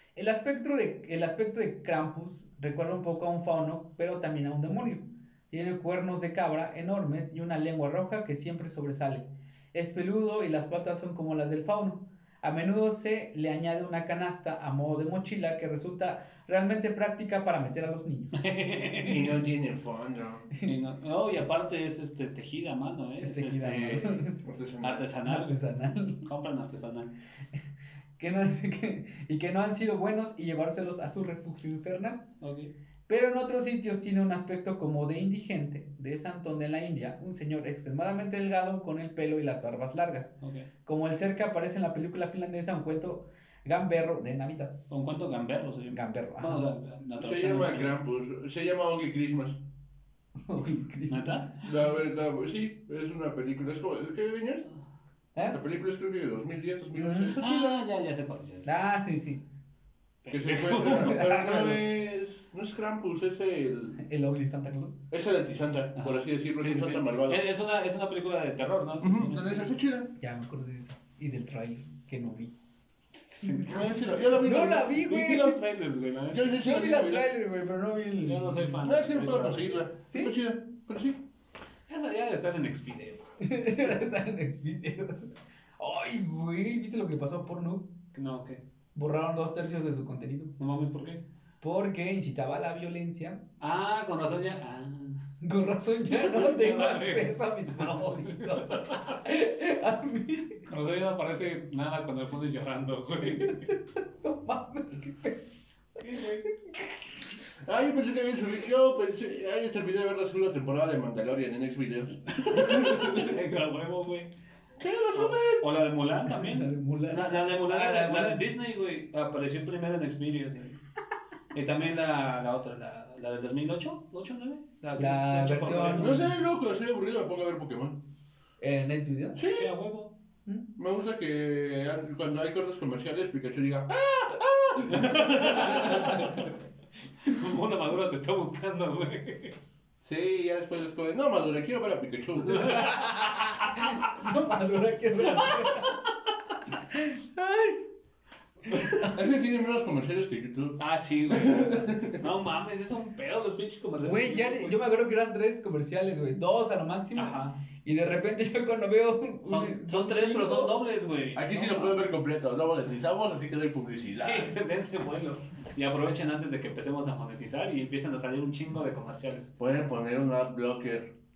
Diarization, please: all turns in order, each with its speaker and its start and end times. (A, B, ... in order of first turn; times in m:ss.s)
0:00.2-0:18.4 A
0:18.3-0:19.4 B
0:19.0-0:20.5 C
0:20.6-0:25.6 B
0:23.2-0:24.4 A
0:24.4-0:25.1 C
0:25.2-0:26.2 A
0:26.2-0:27.1 B
0:28.2-0:32.3 A
0:32.4-0:32.7 B
0:33.1-0:44.8 A
0:40.4-0:40.7 B
0:44.9-0:48.0 B
0:45.9-0:46.7 A
0:47.2-0:49.6 C
0:50.5-0:51.3 A
0:51.1-0:51.7 B
0:51.6-0:54.7 C
0:55.5-0:57.8 C
0:56.9-0:57.4 A
0:57.4-0:58.7 B
0:58.6-0:59.4 A
1:00.2-1:01.2 B
1:00.3-1:04.0 C
1:01.0-1:01.8 A
1:04.0-1:05.0 A
1:05.1-1:07.4 C
1:06.0-1:09.7 B
1:09.0-1:10.1 C
1:10.2-1:12.5 A
1:13.2-1:15.6 A
1:13.3-1:13.7 B
1:13.6-1:14.9 C
1:14.9-1:16.6 B
1:16.3-1:17.3 C
1:16.6-1:18.8 A
1:18.1-1:19.8 B
1:18.8-1:21.2 C
1:21.9-1:23.4 B
1:23.4-1:27.9 A
1:28.1-1:28.6 B
1:28.9-1:30.6 A
1:30.6-1:31.2 B
1:31.6-1:33.4 A
1:33.6-1:35.2 B
1:35.4-1:40.6 A
1:36.1-1:39.2 B
1:40.6-1:43.7 B
1:43.2-1:45.4 A
1:46.0-1:46.5 B
1:46.5-1:47.3 A
1:47.6-1:53.3 C
1:52.3-1:54.3 B
1:54.8-1:55.7 C
1:55.1-2:00.8 B
1:56.3-1:58.5 A
2:01.5-2:06.3 B
2:05.0-2:06.3 A
2:06.0-2:08.0 C
2:08.6-2:09.4 A
2:09.4-2:09.7 C
2:09.5-2:10.1 B
2:10.8-2:16.2 C
2:14.9-2:16.5 B
2:15.5-2:16.2 A
2:17.2-2:19.6 B
2:20.0-2:22.8 C
2:22.4-2:24.1 B
2:22.6-2:26.0 A
2:26.7-2:27.9 A
2:28.7-2:29.2 A
2:29.0-2:32.2 C
2:30.8-2:34.8 B
2:34.0-2:40.8 A
2:37.1-2:37.6 B
2:39.4-2:42.1 B
2:41.4-2:44.6 C
2:44.1-2:49.5 B
2:49.6-2:51.1 C